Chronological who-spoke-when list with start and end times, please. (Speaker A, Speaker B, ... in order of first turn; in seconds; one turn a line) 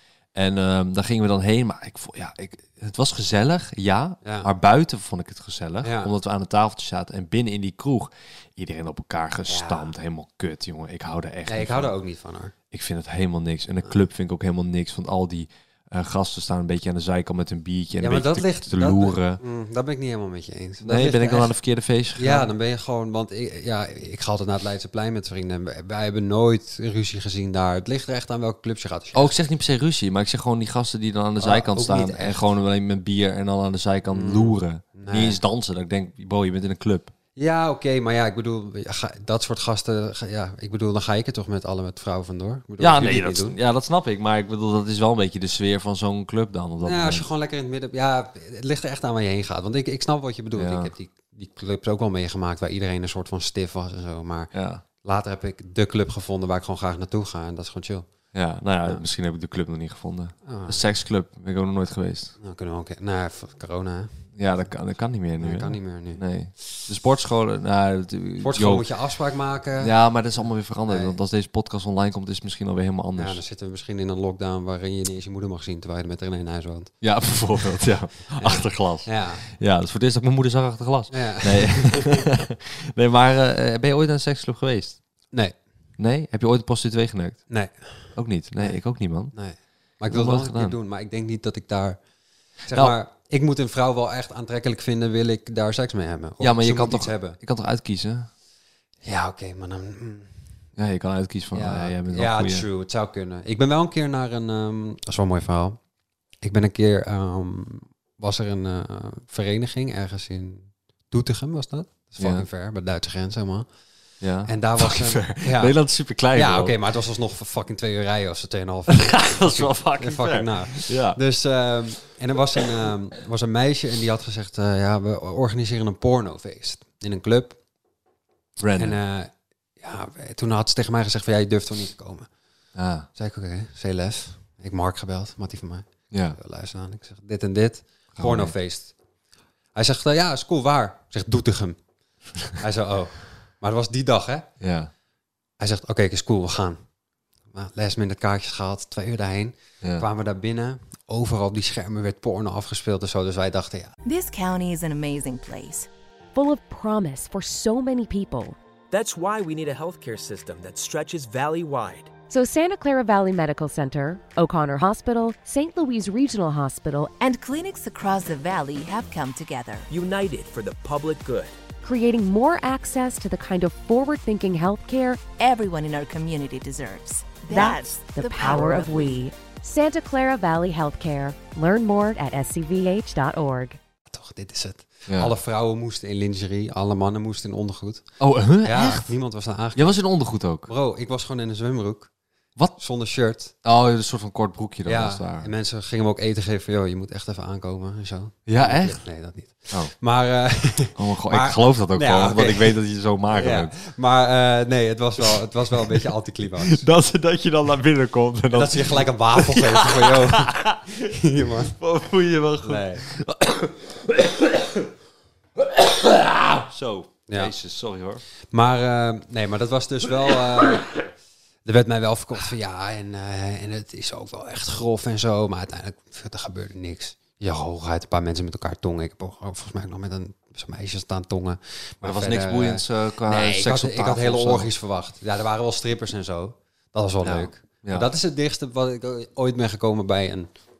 Speaker A: 0.3-11.9
Speaker B: 4.2-4.5
Speaker B: 5.8-6.1
Speaker B: 9.5-9.9
Speaker B: 11.4-12.5
Speaker A: 12.7-19.4
Speaker B: 18.0-21.5
Speaker A: 20.8-22.5
Speaker B: 22.1-29.3
Speaker A: 29.1-37.1
Speaker B: 31.4-32.5
Speaker B: 34.1-35.4
Speaker B: 37.4-43.5
Speaker A: 42.8-47.3
Speaker B: 46.8-54.5
Speaker A: 50.6-50.9
Speaker A: 54.5-54.8
Speaker B: 55.0-58.1
Speaker A: 58.3-62.3
Speaker B: 60.4-60.8
Speaker B: 62.4-64.2
Speaker A: 64.3-68.9
Speaker B: 65.4-66.2
Speaker B: 68.4-69.9
Speaker A: 69.8-73.4
Speaker B: 70.9-71.2
Speaker B: 73.2-76.9
Speaker A: 77.0-85.0
Speaker B: 78.3-79.4
Speaker B: 81.1-82.3
Speaker A: 86.0-87.4
Speaker B: 87.5-88.8
Speaker A: 88.1-89.3
Speaker B: 89.3-92.0
Speaker A: 90.1-90.8
Speaker B: 92.6-97.4
Speaker A: 96.4-98.3
Speaker B: 99.0-100.3
Speaker A: 100.8-102.7
Speaker B: 101.5-105.8
Speaker B: 106.4-113.7
Speaker A: 112.2-112.5
Speaker A: 114.2-116.8
Speaker B: 114.4-115.8
Speaker B: 116.3-127.6
Speaker A: 118.9-121.2
Speaker A: 128.6-129.0
Speaker B: 128.8-132.3
Speaker A: 132.7-133.1
Speaker B: 133.1-138.9
Speaker A: 136.1-136.4
Speaker A: 138.1-138.5
Speaker B: 139.7-141.8
Speaker B: 142.5-144.5
Speaker A: 144.6-144.9
Speaker B: 145.6-146.8
Speaker B: 147.5-153.9
Speaker C: 154.0-155.9
Speaker D: 156.3-158.6
Speaker E: 158.9-162.1
Speaker D: 162.3-167.1
Speaker C: 167.2-169.9
Speaker E: 169.9-171.6
Speaker D: 171.8-175.2
Speaker C: 175.4-179.2
Speaker D: 177.5-183.8
Speaker B: 184.1-188.0
Speaker A: 188.2-189.1
Speaker B: 188.6-190.0
Speaker A: 189.8-190.7
Speaker B: 190.7-192.1
Speaker B: 192.8-193.5
Speaker A: 193.6-195.5
Speaker B: 194.8-202.8
Speaker A: 198.5-199.0
Speaker A: 200.9-203.7
Speaker B: 203.3-206.8
Speaker A: 206.6-211.0
Speaker B: 208.5-211.8
Speaker A: 211.8-214.9
Speaker B: 212.6-213.0
Speaker A: 215.6-218.2
Speaker B: 218.5-221.0
Speaker B: 221.6-240.5
Speaker A: 232.0-234.7
Speaker A: 237.2-238.1